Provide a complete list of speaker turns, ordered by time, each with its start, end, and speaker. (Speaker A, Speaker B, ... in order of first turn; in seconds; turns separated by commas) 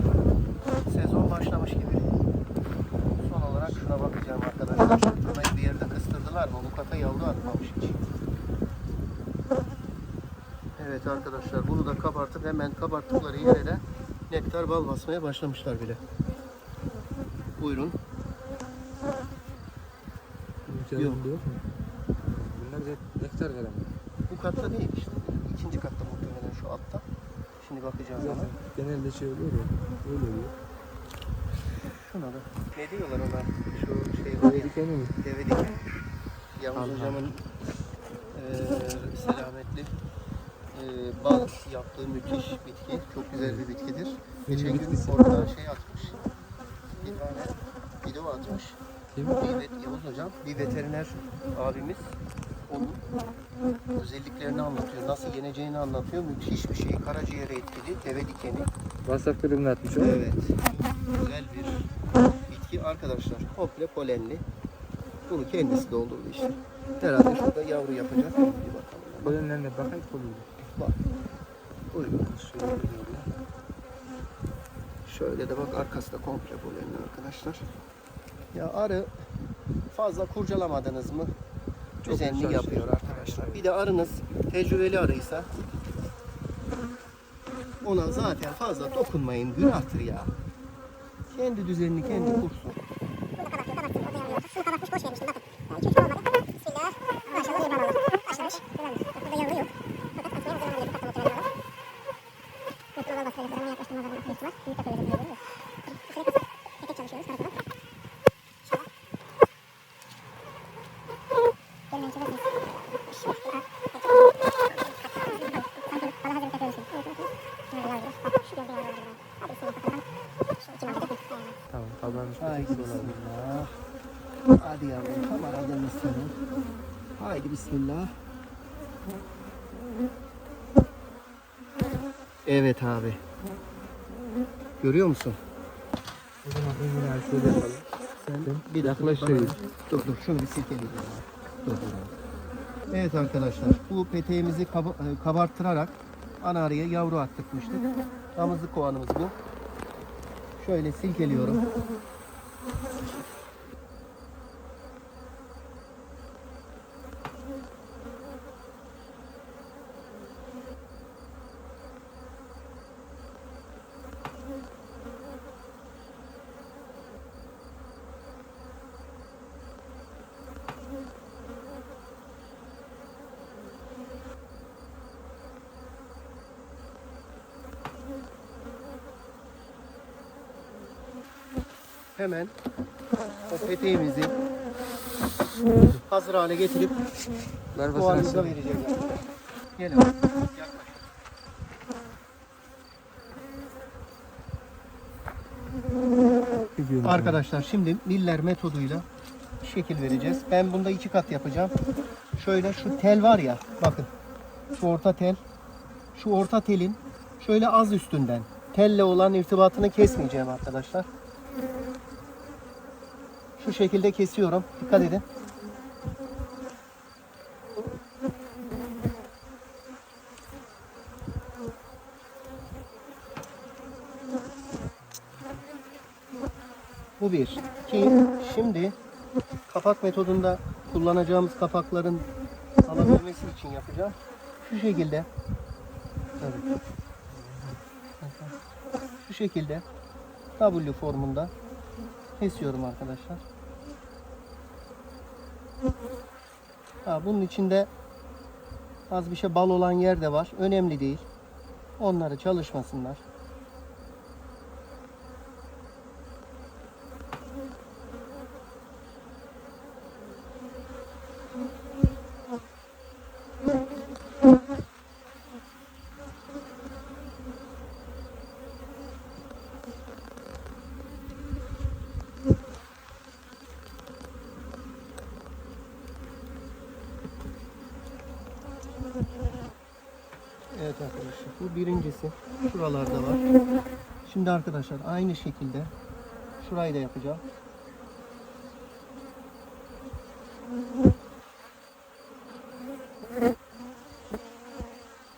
Speaker A: 0.8-2.1, Speaker A: 3.2-8.0, Speaker A: 10.8-16.0, Speaker A: 17.6-18.0, Speaker B: 20.7-21.6, Speaker A: 21.0-21.2, Speaker B: 22.2-23.9, Speaker A: 24.3-27.0, Speaker A: 27.6-28.5, Speaker B: 28.2-30.5, Speaker A: 31.9-35.8, Speaker B: 34.4-35.1, Speaker A: 36.6-37.4, Speaker B: 36.8-37.3, Speaker A: 38.3-39.9, Speaker A: 40.7-46.2, Speaker B: 44.5-45.5, Speaker A: 47.0-48.8, Speaker B: 49.1-49.4, Speaker A: 49.4-52.1, Speaker A: 52.7-53.0, Speaker A: 53.9-58.7, Speaker B: 59.0-60.2, Speaker A: 60.0-61.9, Speaker A: 62.5-64.4, Speaker A: 65.3-69.4, Speaker B: 69.2-70.6, Speaker A: 71.9-72.3, Speaker B: 72.1-73.3, Speaker A: 75.1-77.7, Speaker A: 78.5-79.1, Speaker A: 79.9-81.3, Speaker A: 82.0-85.5, Speaker B: 82.0-83.8, Speaker A: 87.8-90.3, Speaker A: 91.3-92.8, Speaker C: 93.4-101.5, Speaker C: 103.0-107.6, Speaker C: 111.9-120.1, Speaker C: 120.6-121.6, Speaker B: 121.7-123.2, Speaker A: 122.4-123.8, Speaker A: 124.5-126.4, Speaker A: 127.2-128.1, Speaker A: 132.4-133.2, Speaker A: 134.8-135.4, Speaker B: 136.4-137.9, Speaker A: 138.2-141.0, Speaker B: 138.4-139.6, Speaker B: 140.8-141.2, Speaker A: 141.6-142.1, Speaker A: 142.9-149.4, Speaker A: 150.6-151.6, Speaker A: 182.2-182.6, Speaker A: 183.5-184.4, Speaker A: 186.1-187.0, Speaker B: 187.7-188.6, Speaker A: 187.9-189.2, Speaker A: 189.8-191.0, Speaker B: 196.8-197.4, Speaker A: 197.0-199.1, Speaker A: 199.6-201.8, Speaker A: 202.4-204.1, Speaker A: 204.8-205.4, Speaker A: 206.1-211.1, Speaker A: 213.6-215.2, Speaker B: 225.0-225.6, Speaker A: 227.2-228.9, Speaker A: 229.7-232.3, Speaker A: 232.8-235.3, Speaker A: 236.4-236.7, Speaker B: 237.3-237.8, Speaker A: 238.2-238.6, Speaker A: 239.2-239.8, Speaker A: 240.6-241.5, Speaker A: 242.4-243.4, Speaker A: 247.1-247.9, Speaker A: 249.1-251.2, Speaker A: 252.0-253.2, Speaker A: 280.7-283.4, Speaker A: 284.2-285.9, Speaker A: 286.6-287.4